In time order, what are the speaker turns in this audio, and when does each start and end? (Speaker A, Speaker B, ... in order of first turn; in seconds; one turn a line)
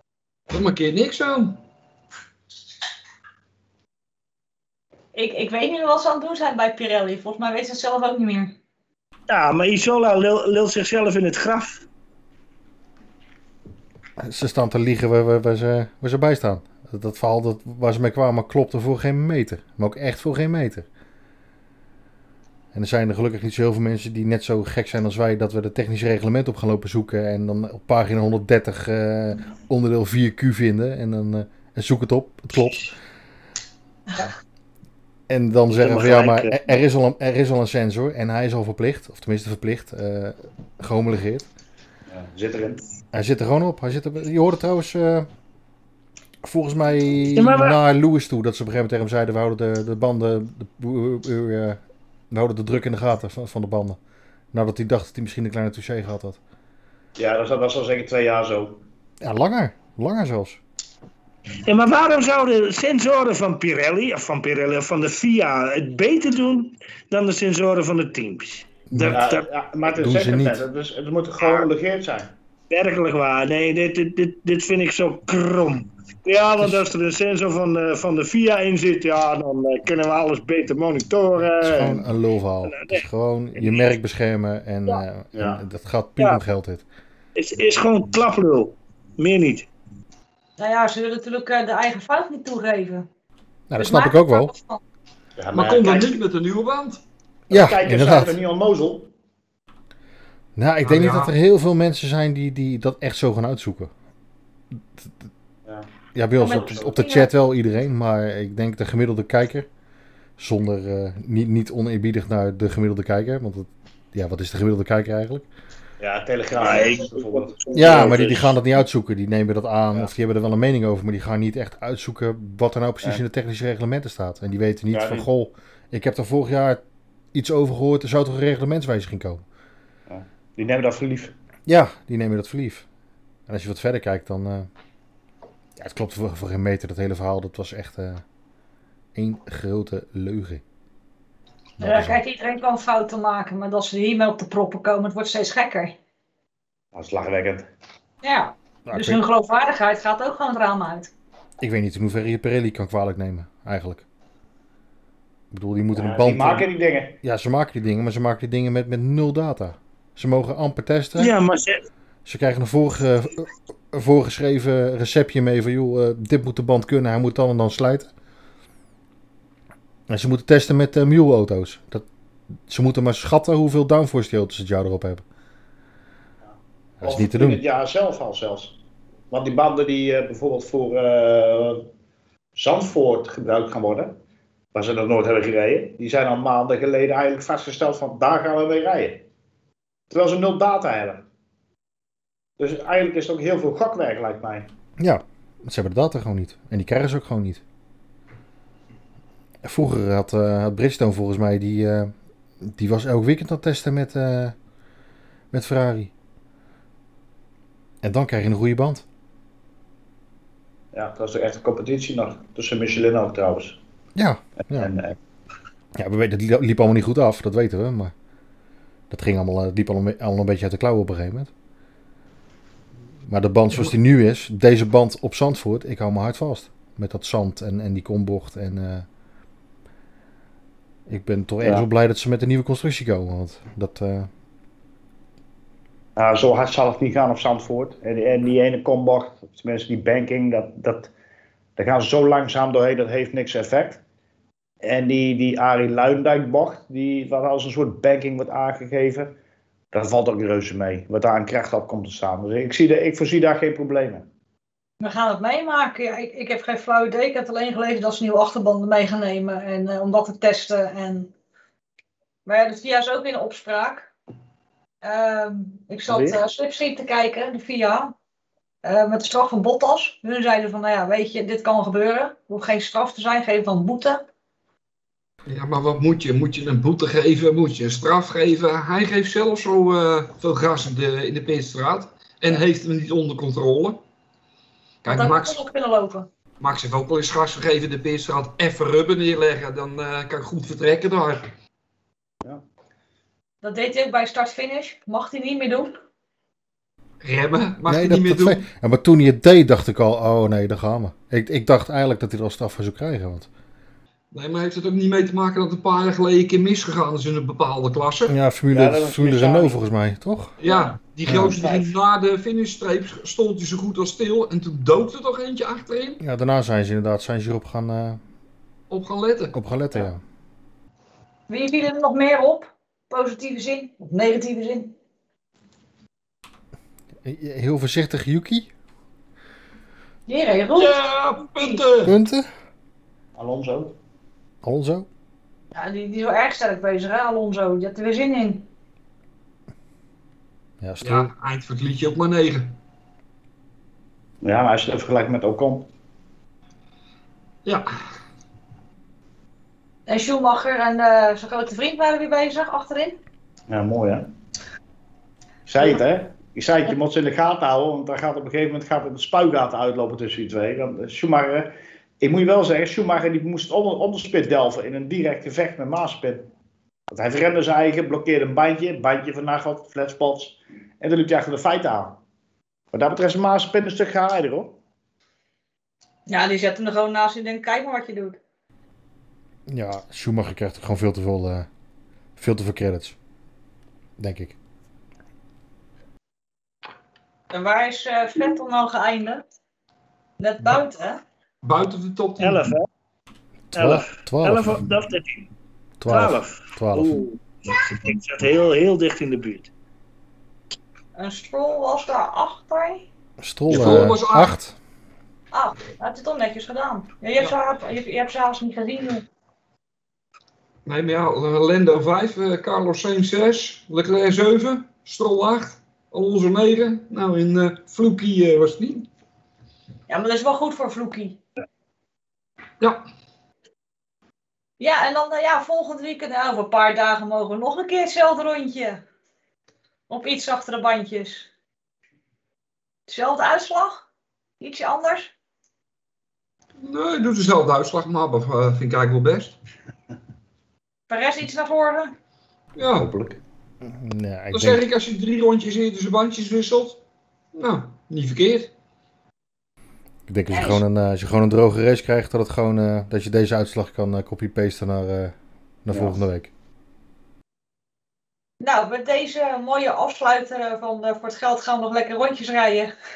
Speaker A: 0.5-1.6
Speaker B: 5.1-8.5
Speaker C: 9.3-11.8
Speaker D: 14.2-20.9
Speaker D: 22.7-32.9
Speaker D: 35.3-41.5
Speaker C: 35.7-36.6
Speaker E: 42.1-42.8
Speaker D: 43.1-45.3
Speaker D: 46.4-54.0
Speaker C: 47.4-47.8
Speaker D: 54.5-56.4
Speaker E: 57.2-58.8
Speaker D: 59.2-60.6
Speaker C: 61.6-69.5
Speaker D: 68.9-69.2
Speaker E: 69.1-72.3
Speaker D: 69.8-70.7
Speaker C: 71.4-71.7
Speaker C: 72.7-82.0
Speaker D: 76.6-76.8
Speaker D: 81.6-86.8
Speaker C: 82.6-83.0
Speaker E: 85.3-85.6
Speaker C: 87.3-89.7
Speaker B: 90.6-93.1
Speaker D: 93.7-94.5
Speaker B: 93.8-94.8
Speaker E: 95.4-96.2
Speaker A: 95.5-97.0
Speaker E: 97.5-99.1
Speaker D: 97.5-98.4
Speaker D: 100.5-103.9
Speaker A: 100.8-101.3
Speaker D: 106.1-109.7
Speaker B: 106.4-107.3
Speaker E: 106.5-106.8
Speaker D: 110.4-115.5
Speaker E: 116.0-118.5
Speaker C: 116.5-118.3
Speaker D: 117.7-126.8
Speaker E: 124.9-125.2
Speaker D: 127.3-129.4
Speaker E: 130.1-131.3
Speaker D: 131.7-132.8
Speaker D: 133.5-134.7
Speaker D: 135.8-138.2
Speaker D: 139.1-140.6
Speaker D: 141.8-142.2
Speaker B: 141.8-146.0
Speaker E: 146.9-147.7
Speaker B: 148.2-151.1
Speaker D: 148.8-149.2
Speaker D: 151.6-154.0
Speaker D: 155.5-156.7
Speaker E: 155.9-157.2
Speaker D: 157.2-161.3
Speaker C: 161.2-161.8
Speaker D: 162.2-168.1
Speaker D: 170.1-172.1
Speaker D: 172.7-175.2
Speaker D: 177.0-177.6
Speaker E: 177.0-178.8
Speaker E: 179.3-181.8
Speaker E: 182.5-184.2
Speaker E: 184.7-189.2
Speaker E: 190.1-191.2
Speaker E: 192.6-194.7
Speaker D: 195.0-197.6
Speaker D: 199.6-204.5
Speaker D: 205.5-206.1
Speaker D: 208.0-209.0
Speaker E: 210.9-213.8
Speaker D: 214.2-214.9
Speaker E: 214.7-215.1
Speaker D: 216.0-218.1
Speaker D: 219.1-221.5
Speaker D: 223.3-229.1
Speaker D: 231.1-234.3
Speaker E: 236.2-241.1
Speaker E: 241.8-244.0
Speaker E: 244.8-249.3
Speaker E: 249.9-254.3
Speaker B: 255.0-261.3
Speaker B: 262.4-264.1
Speaker B: 265.0-268.1
Speaker E: 266.1-266.4
Speaker B: 268.8-274.2
Speaker A: 275.5-284.0
Speaker A: 285.0-285.6
Speaker B: 285.1-286.3
Speaker A: 286.6-291.5
Speaker B: 293.6-296.0
Speaker A: 297.2-298.7
Speaker D: 297.9-303.5
Speaker A: 304.3-308.3
Speaker D: 308.3-310.5
Speaker E: 308.7-309.8
Speaker A: 310.6-316.2
Speaker E: 310.6-311.9
Speaker D: 316.2-318.2
Speaker A: 318.9-319.6
Speaker D: 319.5-320.2
Speaker B: 321.5-324.9
Speaker D: 327.2-328.7
Speaker B: 330.3-331.8
Speaker A: 330.7-332.1
Speaker D: 332.0-332.5
Speaker E: 333.4-333.9
Speaker D: 334.6-335.1
Speaker B: 335.7-338.6
Speaker D: 340.8-341.3
Speaker A: 341.0-342.7
Speaker E: 344.4-345.9
Speaker B: 350.1-353.2
Speaker E: 353.7-354.2
Speaker E: 355.7-366.5
Speaker E: 367.1-372.2
Speaker E: 372.9-374.8
Speaker B: 376.3-378.4
Speaker D: 379.7-381.7
Speaker D: 382.4-383.1
Speaker D: 384.2-384.6
Speaker B: 387.5-389.4
Speaker B: 390.4-391.2
Speaker A: 391.6-392.7
Speaker C: 392.4-392.9
Speaker D: 393.7-394.8
Speaker C: 393.7-395.5
Speaker D: 396.0-397.2
Speaker C: 396.1-399.7
Speaker B: 401.1-403.0
Speaker D: 403.4-404.7
Speaker A: 403.7-404.5
Speaker B: 405.5-409.2
Speaker A: 410.9-419.1
Speaker B: 420.1-421.4
Speaker B: 424.8-429.0
Speaker B: 430.1-431.5
Speaker B: 433.1-434.0
Speaker B: 434.6-435.3
Speaker A: 436.8-439.6
Speaker B: 441.1-442.1
Speaker A: 442.8-443.1
Speaker E: 442.9-443.4
Speaker D: 443.8-444.8
Speaker A: 444.5-447.0
Speaker A: 447.5-448.7
Speaker D: 450.3-456.5
Speaker B: 450.5-450.8
Speaker E: 455.9-456.2
Speaker B: 458.6-462.9